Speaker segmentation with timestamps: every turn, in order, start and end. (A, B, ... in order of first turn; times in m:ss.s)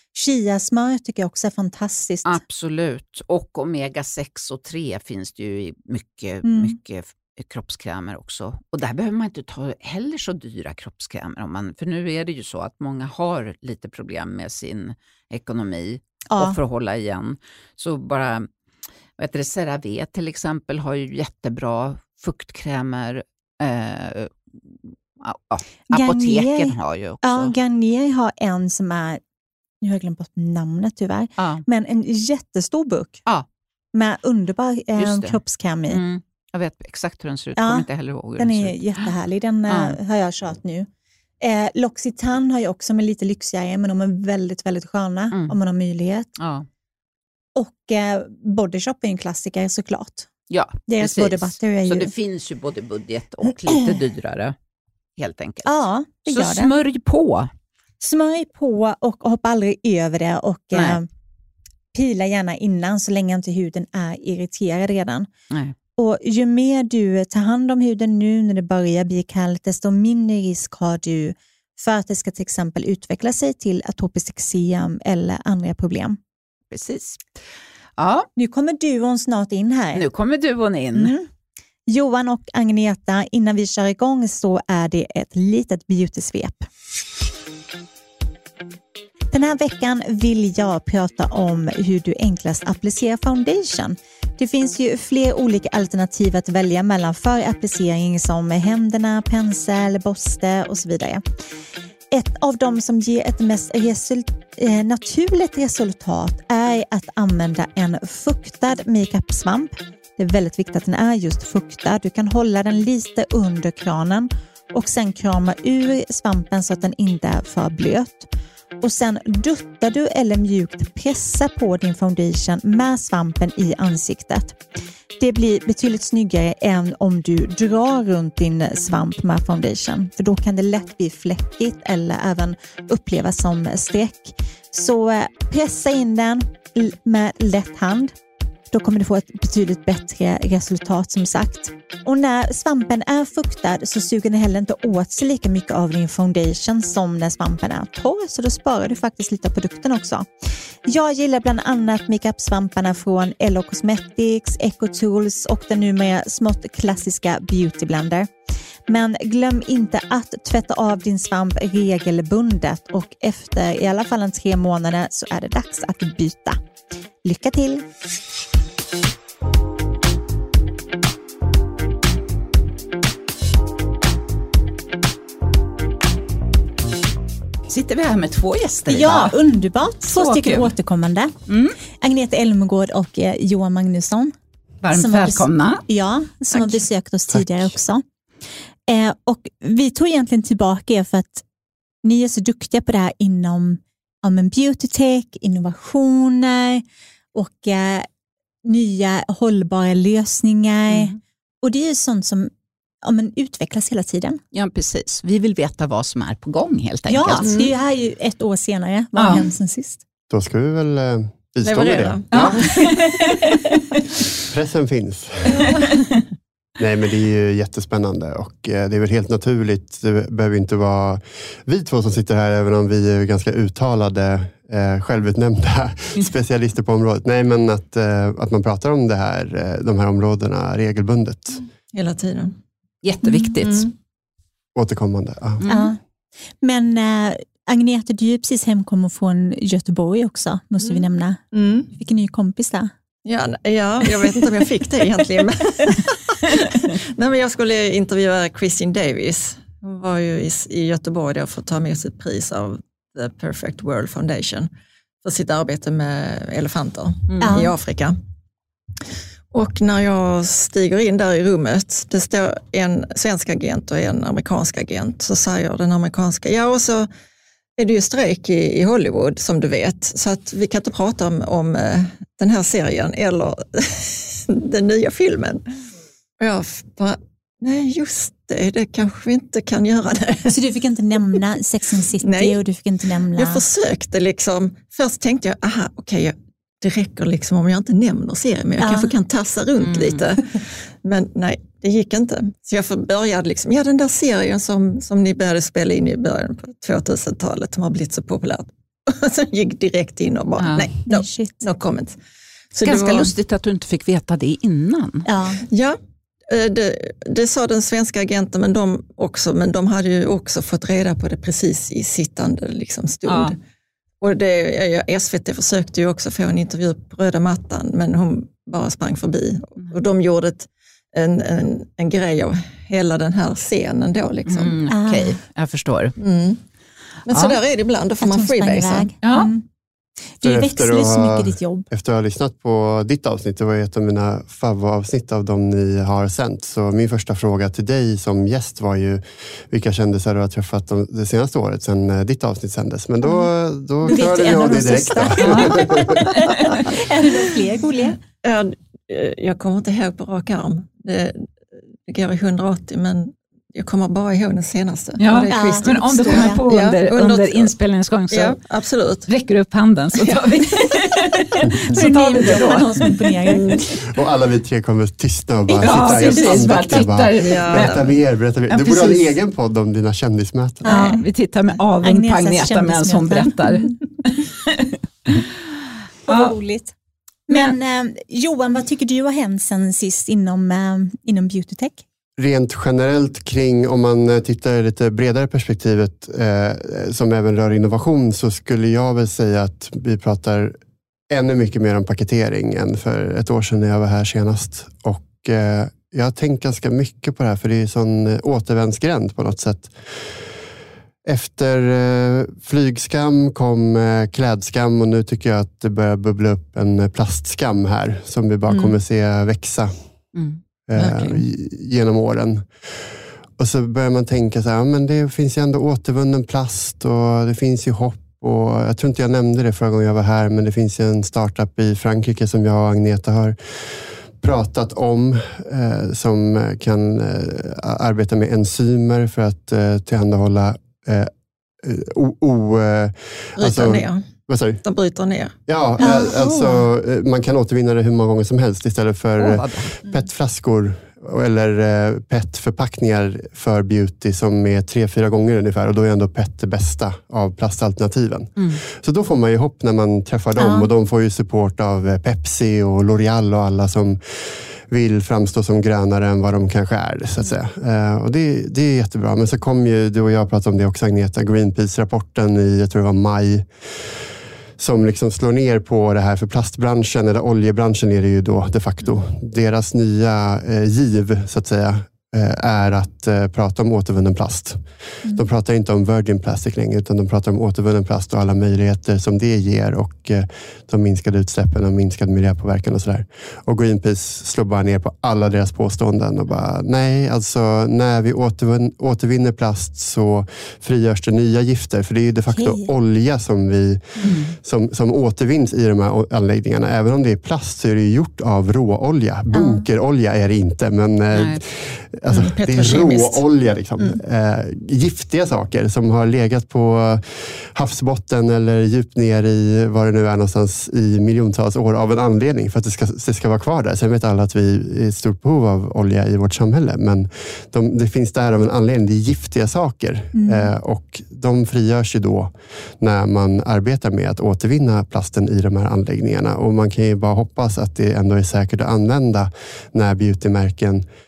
0:00.1-0:02.4 A
0:02.2-0:18.5 B
0:06.4-0:06.8 A
0:16.3-0:16.6 A
0:19.2-0:24.3 B
0:25.2-0:27.5 B
0:25.9-0:29.2 A
0:29.8-0:33.2 A
0:31.4-0:31.6 B
0:33.9-0:36.0 A
0:35.0-0:39.1 B
0:37.6-0:37.8 A
0:38.4-0:40.9 A
0:39.7-0:40.0 B
0:41.4-0:46.3 A
0:46.4-0:46.7 B
0:47.6-0:50.3 A
0:50.5-0:54.6 B
0:50.9-0:52.1 A
0:55.2-0:55.7 B
0:55.6-0:56.7 A
0:56.3-0:57.5 B
0:58.0-1:01.1 A
1:00.7-1:01.0 B
1:01.9-1:05.3 A
1:06.0-1:16.2 A
1:16.7-1:17.2 B
1:18.0-1:18.3 B
1:18.4-1:20.0 A
1:20.0-1:21.1 B
1:20.9-1:21.3 A
1:21.9-1:26.7 A
1:29.3-1:41.2 A
1:42.1-1:58.3 A
1:58.8-2:04.6 A
2:05.2-2:18.1 A
2:18.7-2:38.3 A
2:38.9-2:46.6 A
2:47.2-2:47.8 A
2:57.7-2:59.4 B
2:58.9-3:01.3 A
3:00.1-3:00.7 B
3:01.5-3:01.8 B
3:02.0-3:04.3 A
3:04.8-3:05.8 B
3:04.9-3:08.0 A
3:07.3-3:07.7 C
3:08.9-3:11.4 A
3:12.0-3:18.1 A
3:18.6-3:22.5 A
3:20.9-3:21.2 B
3:23.0-3:24.4 A
3:24.5-3:27.5 B
3:27.1-3:30.0 A
3:27.4-3:27.7 D
3:29.2-3:29.4 B
3:30.3-3:32.7 C
3:31.6-3:32.9 D
3:32.3-3:33.8 B
3:32.8-3:33.2 A
3:34.5-3:35.7 C
3:35.5-3:35.8 D
3:35.6-3:36.2 B
3:36.8-3:51.6 C
3:51.9-3:52.6 D
3:53.0-3:53.9 B
3:53.2-3:53.5 A
3:53.6-3:53.9 D
3:54.7-3:55.6 C
3:55.6-3:55.9 B
3:55.7-3:56.0 A
3:56.6-4:02.9 A
4:00.8-4:01.9 D
4:03.2-4:14.7 D
4:15.2-4:18.2 D
4:17.3-4:17.6 B
4:17.4-4:17.7 A
4:19.5-4:27.1 D
4:27.8-4:35.6 D
4:36.4-4:40.5 D
4:40.5-4:43.6 A
4:42.2-4:42.6 D
4:43.3-5:02.2 D
4:48.8-4:49.1 A
4:49.8-4:50.2 B
5:00.6-5:00.9 B
5:01.1-5:01.6 A
5:02.7-5:03.3 D
5:02.8-5:05.3 B
5:05.2-5:05.6 A
5:05.7-5:06.0 D
5:06.5-5:13.6 D
5:13.2-5:13.6 B
5:14.2-5:24.8 D
5:24.4-5:26.1 B
5:24.9-5:25.4 A
5:26.2-5:26.6 D
5:27.2-5:29.1 D
5:27.3-5:27.6 B
5:28.2-5:29.6 A
5:29.2-5:29.5 B
5:30.4-5:31.9 A
5:30.4-5:46.3 C
5:44.0-5:48.2 A
5:45.4-5:46.9 B
5:48.4-5:51.4 D
5:52.1-5:57.7 D
5:55.2-5:58.6 B
5:55.5-5:56.6 A
5:58.3-5:59.3 D
5:59.3-6:03.1 B
6:00.2-6:01.2 D
6:01.9-6:03.8 A
6:03.5-6:03.9 D
6:04.0-6:11.1 C
6:05.8-6:08.0 B
6:05.8-6:07.0 A
6:07.4-6:08.1 D
6:08.7-6:09.4 B
6:10.8-6:11.2 A
6:10.9-6:15.5 B
6:12.0-6:14.0 A
6:16.2-6:16.5 B
6:16.2-6:16.9 A
6:17.5-6:22.0 A
6:17.5-6:17.7 B
6:22.4-6:30.8 C
6:31.3-6:40.5 C
6:41.2-6:49.9 C
6:48.7-6:48.9 D
6:50.3-6:50.6 B
6:50.9-7:11.3 C
6:51.0-6:51.4 D
7:11.8-7:14.8 C
7:13.6-7:14.2 D
7:14.8-7:15.5 D
7:15.7-7:44.2 C
7:16.0-7:16.8 A
7:19.4-7:20.0 B
7:30.6-7:30.9 A
7:44.8-8:51.0 C
8:12.5-8:12.9 A
8:14.2-8:14.6 B
8:19.5-8:19.8 A
8:21.3-8:21.6 B
8:22.3-8:23.4 D
8:40.3-8:40.7 A